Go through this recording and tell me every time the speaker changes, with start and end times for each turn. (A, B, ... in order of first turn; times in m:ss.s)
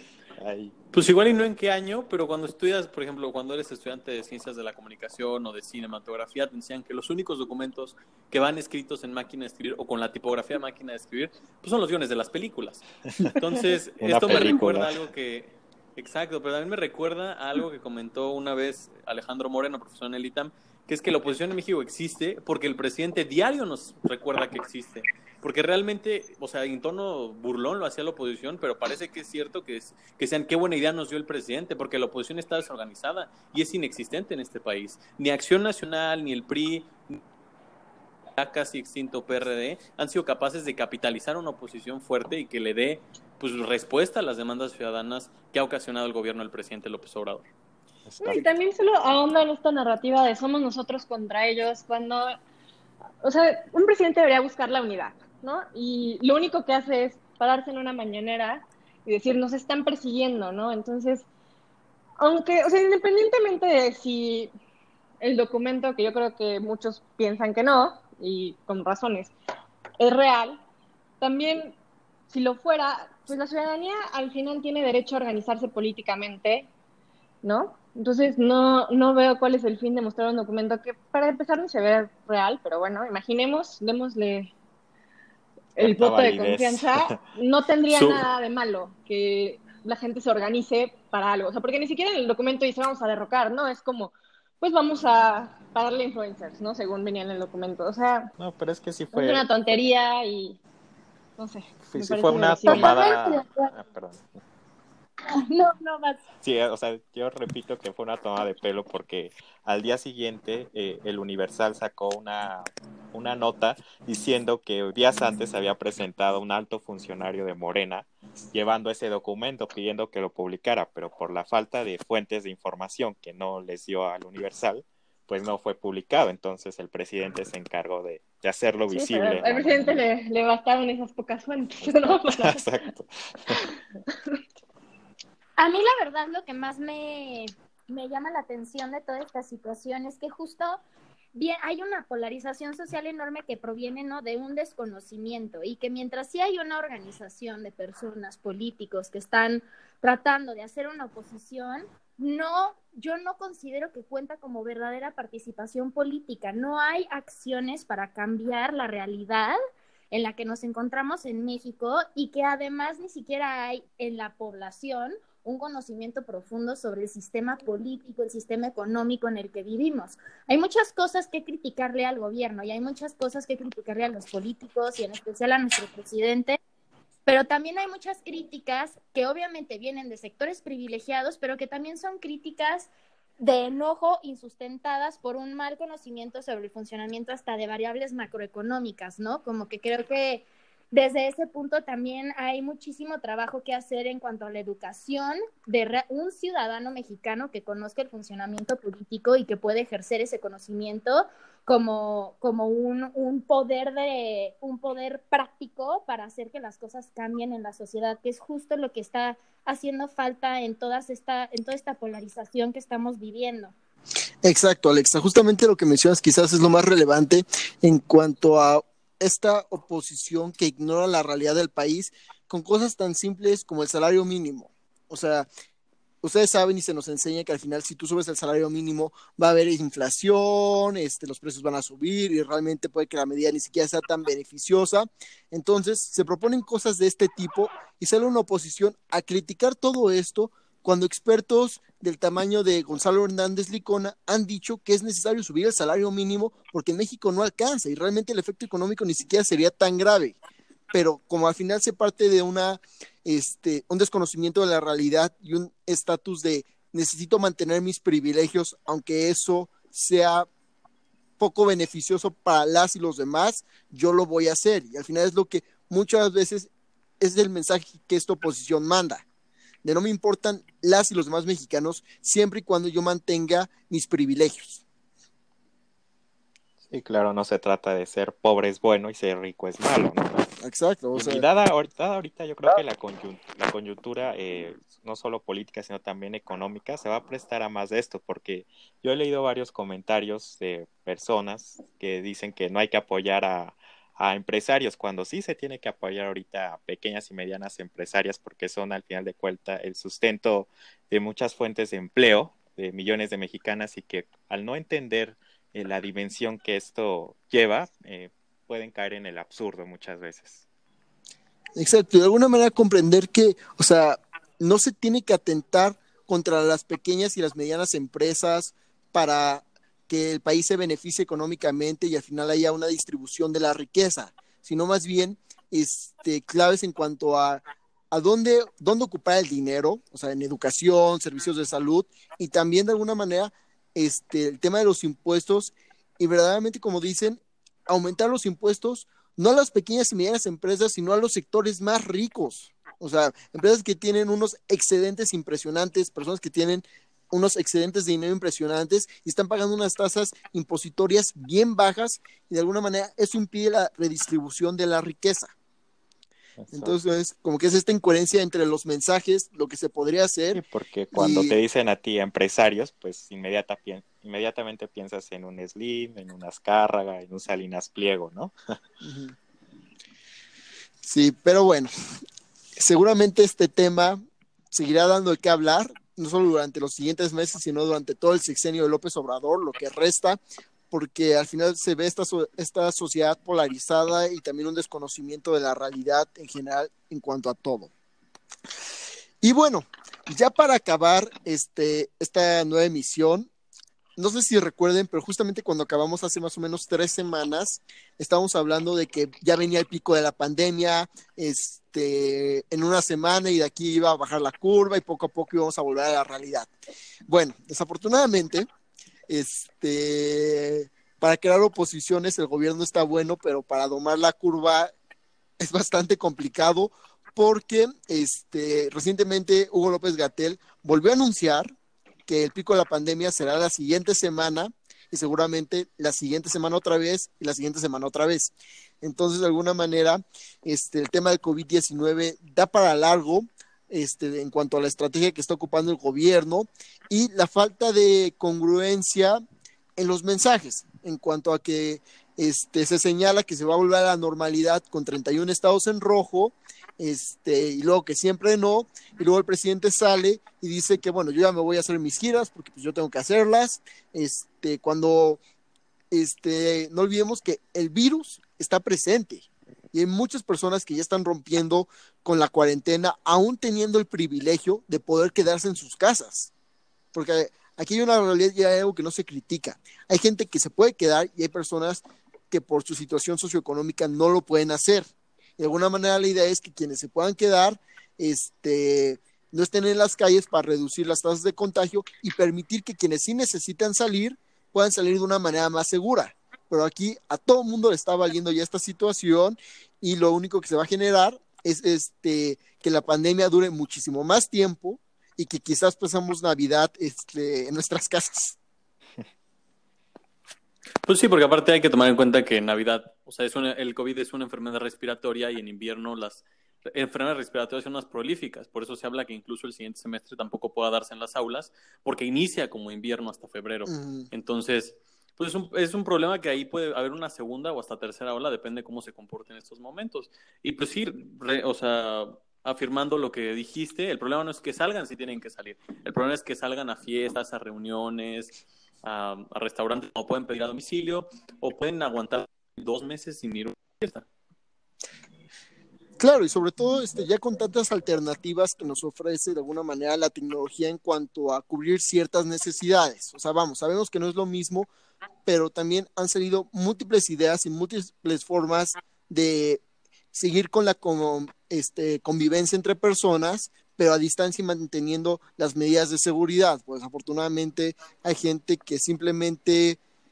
0:00.4-0:00.7 A
0:00.9-0:12.8 B
0:13.4-0:37.2 B
0:14.0-0:15.0 A
0:38.4-0:47.5 B
0:48.1-0:48.5 A
0:48.2-0:52.4 C
0:53.2-1:01.2 C
1:02.2-1:04.5 C
1:05.2-1:09.3 C
1:10.0-1:10.6 C
1:11.2-1:11.8 C
1:12.3-1:16.7 C
1:17.4-1:24.5 C
1:25.8-1:27.2 A
1:25.8-1:38.3 C
1:27.9-1:28.3 B
1:38.4-1:39.6 A
1:39.1-1:40.6 C
1:41.4-1:43.0 C
1:41.8-1:44.3 A
1:42.6-1:43.7 D
1:45.4-1:46.2 D
1:46.4-2:10.0 A
2:08.9-2:12.8 C
2:11.8-2:13.6 A
2:15.6-2:20.8 D
2:21.3-2:39.6 D
2:40.1-2:56.6 D
2:57.3-3:33.7 D
3:34.4-3:45.5 E
3:46.2-4:10.4 E
4:10.9-4:20.5 E
4:21.4-4:29.2 E
4:29.8-4:34.8 E
4:36.8-4:40.4 A
4:40.6-4:41.4 E
4:41.2-5:10.6 A
5:11.8-5:55.5 E
5:56.6-5:57.0 A
5:56.7-6:00.6 E
6:00.5-6:08.5 A
6:01.1-6:01.6 E
6:09.0-6:09.4 E
6:11.0-6:11.9 E
6:12.8-6:14.2 E
6:14.7-6:20.4 E
6:20.9-6:27.9 E
6:29.4-6:33.5 E
6:34.2-6:46.7 E
6:47.3-6:48.7 E
6:49.3-6:54.9 E
6:55.6-7:01.7 E
7:02.3-7:19.4 E
7:20.0-7:35.4 E
7:36.1-7:46.5 E
7:47.1-8:18.6 E
8:21.0-8:54.3 B
8:33.9-8:34.3 E
8:56.2-9:04.9 E
9:05.4-9:09.8 E
9:10.3-9:20.0 E